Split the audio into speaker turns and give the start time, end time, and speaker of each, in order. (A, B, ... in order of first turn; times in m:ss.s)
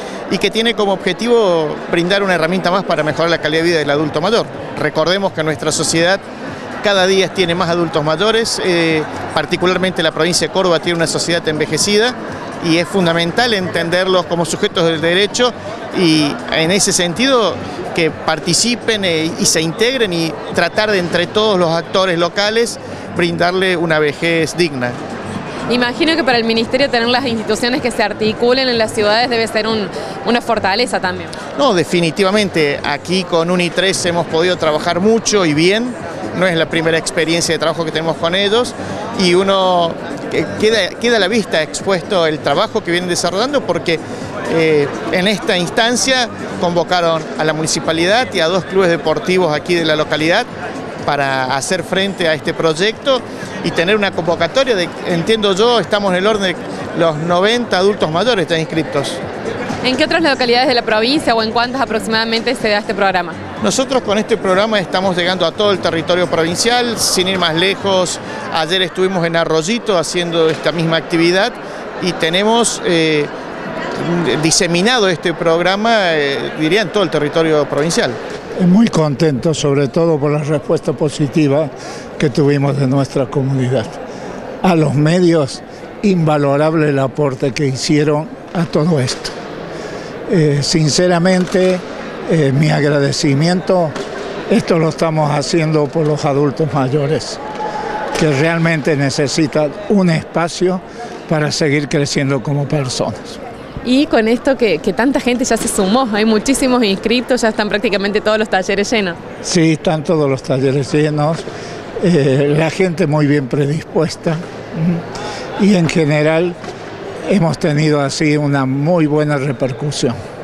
0:00.3-0:06.2 A
0:06.8-0:25.0 A
0:25.7-0:31.4 B
0:31.6-0:50.5 A
0:51.0-0:59.2 A
0:59.8-1:03.4 B
1:03.6-1:13.3 A
1:13.9-1:18.2 A
1:18.6-1:24.0 C
1:24.6-1:29.3 C
1:30.3-1:34.0 C
1:34.5-1:37.4 C
1:38.2-1:43.4 C
1:43.8-1:49.2 B
1:49.4-1:51.4 C
1:52.0-1:55.0 C
1:55.6-1:56.6 C
1:57.2-2:00.2 C